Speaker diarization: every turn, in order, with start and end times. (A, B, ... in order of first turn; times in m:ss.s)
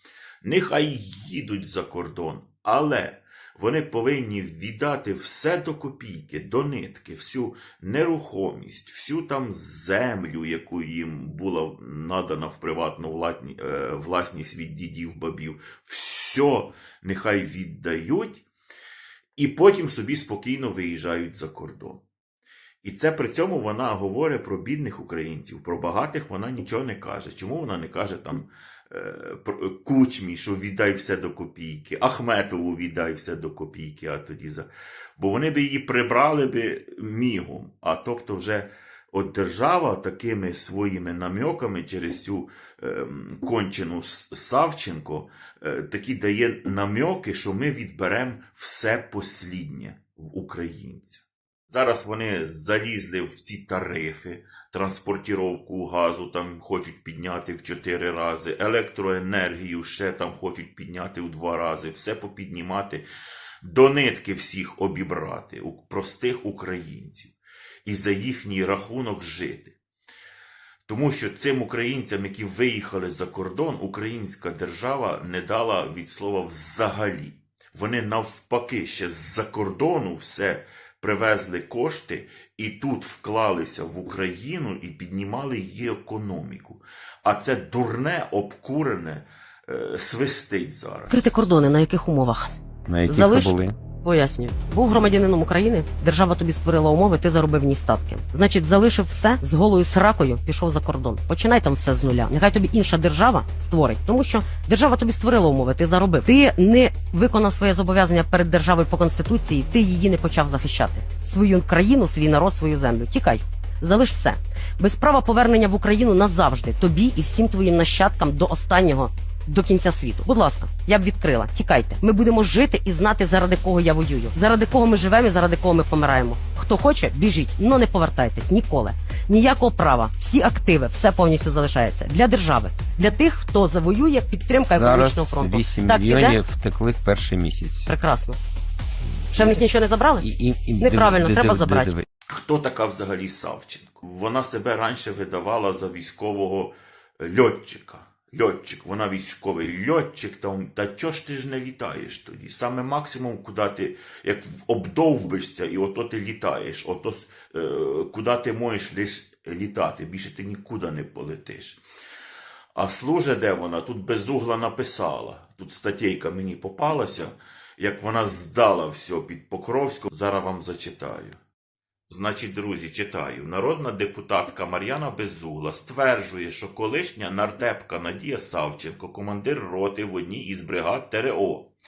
0:00.4-0:18.4 A
0:19.4-0:22.0 A
0:22.8-1:03.0 A
1:03.6-1:07.3 A
1:07.8-1:09.8 A
1:10.9-1:31.5 A
1:31.1-1:32.5 B
1:32.9-1:33.8 C
1:33.1-2:16.4 B
2:14.7-2:17.9 C
2:17.9-2:18.4 B
2:19.3-2:19.6 C
2:19.3-2:20.3 B
2:20.2-2:22.0 C
2:20.8-2:22.0 B
2:22.3-2:41.8 A
2:42.8-2:51.4 A
2:52.1-3:01.7 A